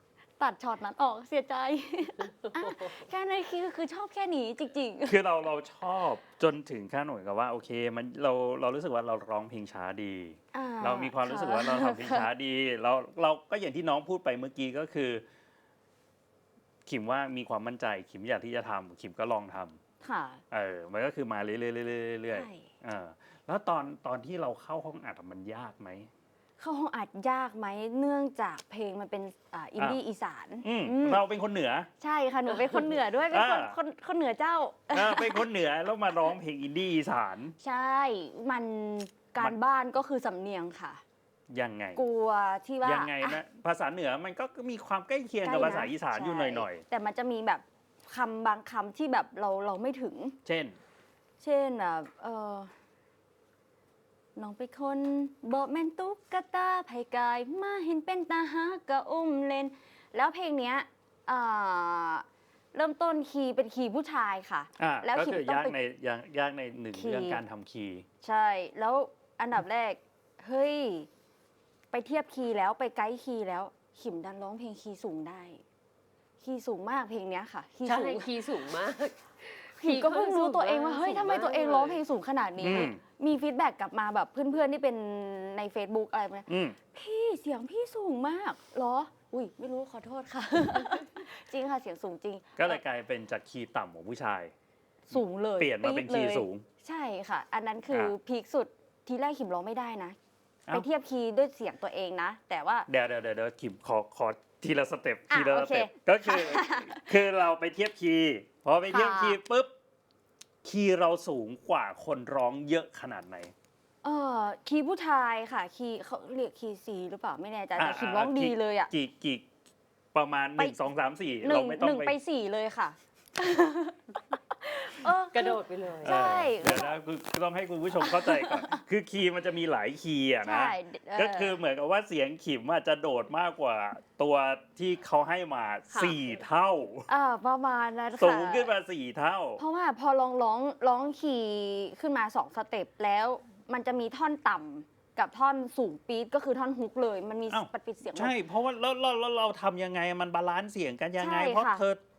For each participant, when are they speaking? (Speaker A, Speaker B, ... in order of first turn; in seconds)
Speaker A: 0.4-5.2, 10.5-12.3, 20.0-20.4, 22.3-22.7, 26.6-31.2, 32.0-35.5, 37.6-41.0, 42.0-43.4, 45.4-50.4, 51.4-52.7, 54.4-65.8, 66.9-67.4, 68.2-71.1, 71.9-75.6, 76.4-78.3, 79.8-92.8, 95.1-100.2, 100.7-102.9, 105.3-107.1, 108.9-109.4, 114.0-118.9, 121.4-127.0, 128.0-128.8, 130.4-131.6, 137.1-138.7, 139.6-148.3, 151.2-151.8
Speaker B: 5.1-15.2, 16.9-19.8, 20.5-26.1, 30.6-31.9, 32.5-33.8, 34.9-37.5, 41.5-42.0, 42.8-46.8, 50.5-50.8, 64.8-68.1, 82.6-83.0, 86.5-86.8, 92.6-94.5, 95.1-96.7, 97.9-98.2, 102.9-109.7, 110.6-113.5, 117.8-119.5, 120.1-122.2, 126.0-137.1, 138.2-139.6, 147.5-152.0
Speaker C: 77.8-82.0, 125.3-126.4, 135.9-136.2